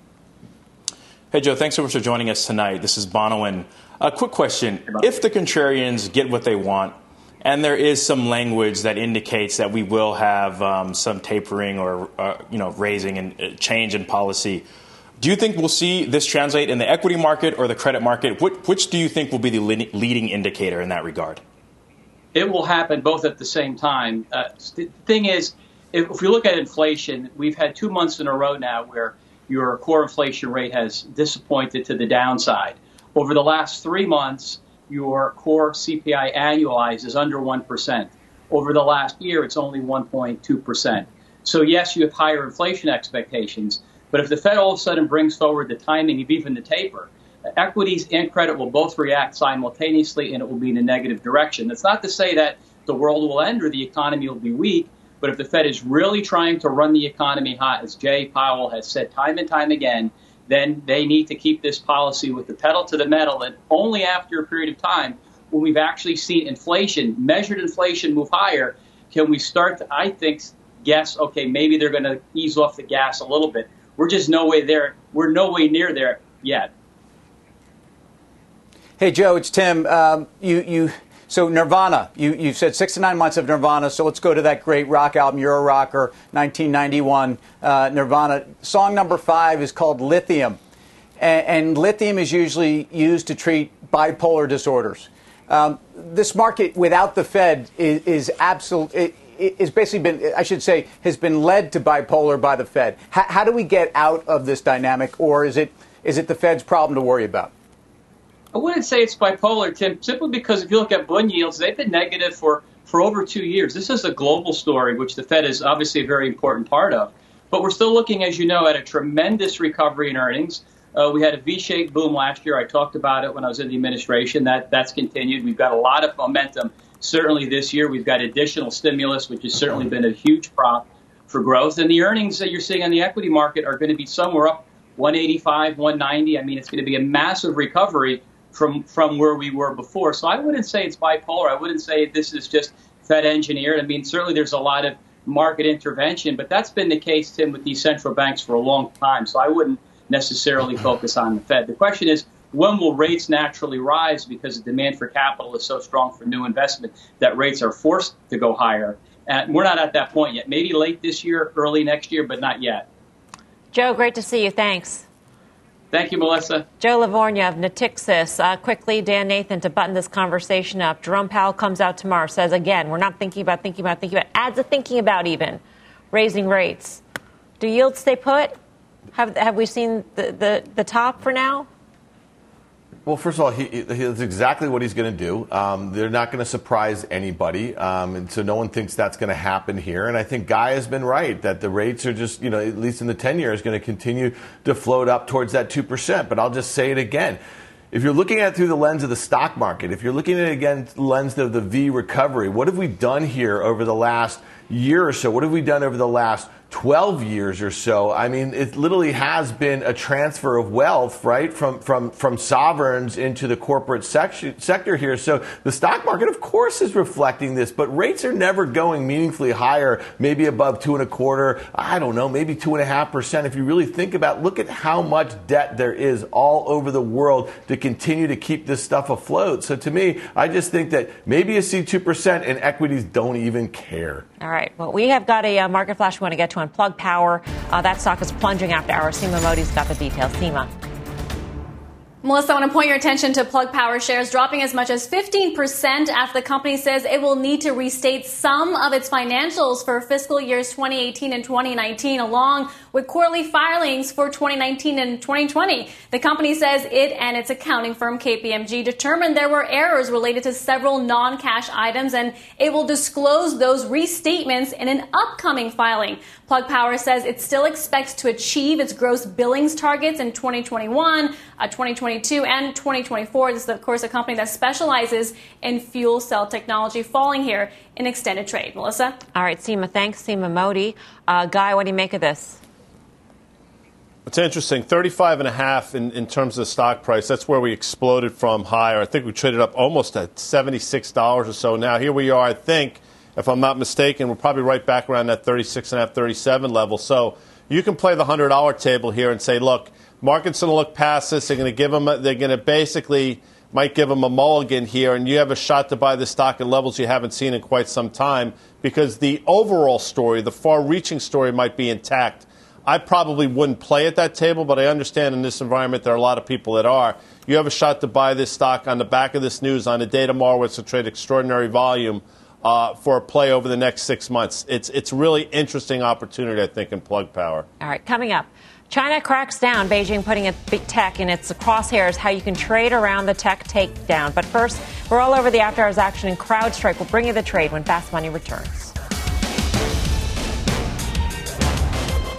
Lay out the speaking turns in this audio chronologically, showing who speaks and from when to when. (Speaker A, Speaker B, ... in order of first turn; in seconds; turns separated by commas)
Speaker A: 1.3-14.7, Speaker A: 15.2-21.4, Speaker B: 22.3-76.7, Speaker C: 79.0-90.6, Speaker C: 91.2-107.5, Speaker B: 108.5-162.9, Speaker D: 163.7-165.1, Speaker B: 165.9-166.7, Speaker D: 166.8-177.0, Speaker D: 177.6-178.5, Speaker D: 179.1-181.7, Speaker E: 183.1-197.4, Speaker E: 197.9-234.3, Speaker D: 234.4-240.7, Speaker F: 242.2-279.1, Speaker D: 279.3-282.6, Speaker G: 284.3-327.7, Speaker D: 327.8-338.9